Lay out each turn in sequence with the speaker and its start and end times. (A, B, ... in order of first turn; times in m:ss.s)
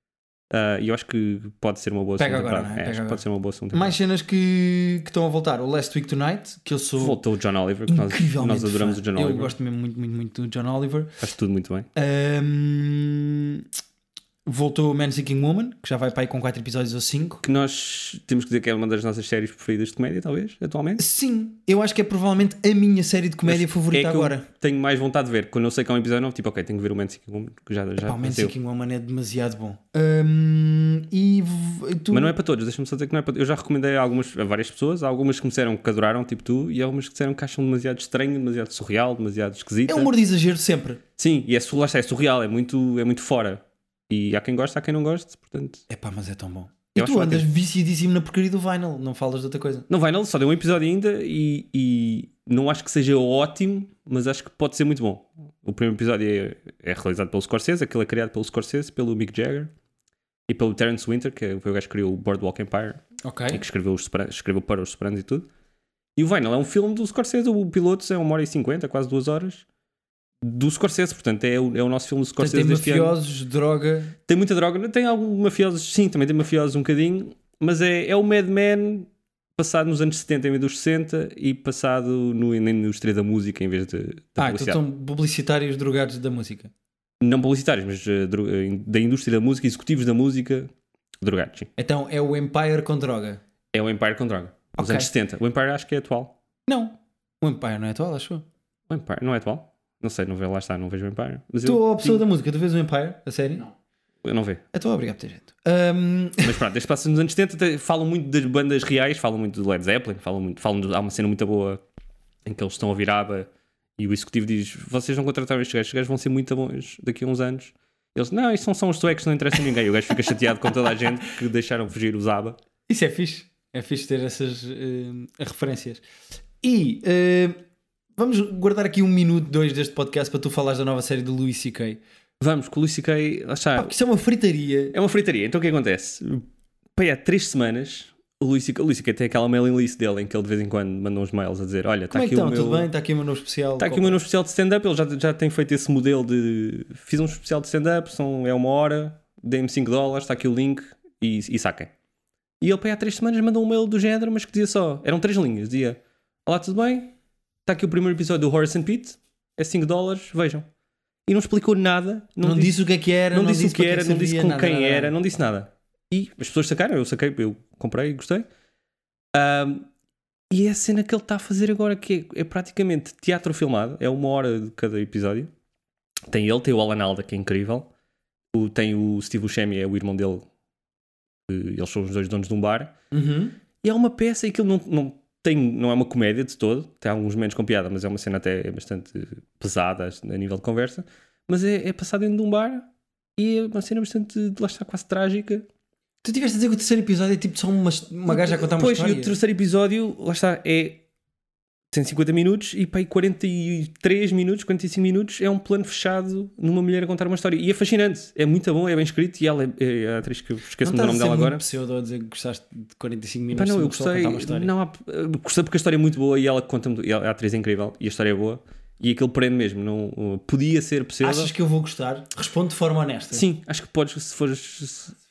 0:00.5-0:04.0 A
0:02.2-0:07.2 B
0:07.0-0:09.5 A
0:07.8-0:11.2 B
0:11.2-0:11.9 A
0:11.9-0:13.6 B
0:14.4-0:17.4 B
0:17.4-0:21.0 A
0:21.0-0:24.5 B
0:23.4-0:28.5 A
0:28.0-0:32.3 B
0:32.1-0:40.1 A
0:39.9-0:41.0 B
0:41.2-0:45.8 A
0:45.9-0:49.9 B
0:46.9-0:47.5 A
0:49.9-0:59.7 A
1:00.5-1:05.5 A
1:03.2-1:03.6 B
1:06.2-1:09.6 A
1:10.4-1:13.2 A
1:12.4-1:14.2 B
1:14.3-1:24.8 A
1:24.4-1:26.7 B
1:27.2-1:31.7 A
1:31.8-1:33.4 B
1:33.7-1:36.4 A
1:34.8-1:35.1 B
1:36.7-1:38.4 B
1:38.9-1:42.2 A
1:41.6-1:43.6 B
1:44.2-1:44.6 A
1:44.7-1:46.6 B
1:46.4-1:51.8 A
1:52.4-2:02.6 A
2:02.9-2:06.0 B
2:06.6-2:07.6 B
2:08.2-2:12.0 B
2:12.4-2:13.9 A
2:13.7-2:14.9 B
2:14.9-2:22.9 A
2:22.1-2:24.2 B
2:23.8-2:31.9 A
2:32.6-2:37.1 A
2:37.6-2:40.7 A
2:41.3-2:42.8 A
2:42.4-2:45.1 B
2:43.3-2:48.5 A
2:49.3-2:49.9 A
2:50.5-2:55.5 A
2:56.3-2:57.9 A
2:58.5-3:00.4 A
3:01.5-3:02.9 A
3:03.1-3:03.6 B
3:03.8-3:15.7 A
3:16.2-3:19.4 B
3:18.3-3:21.0 A
3:21.9-3:31.6 A
3:30.8-3:34.7 B
3:33.5-3:41.5 A
3:41.2-3:43.4 B
3:43.3-3:45.1 A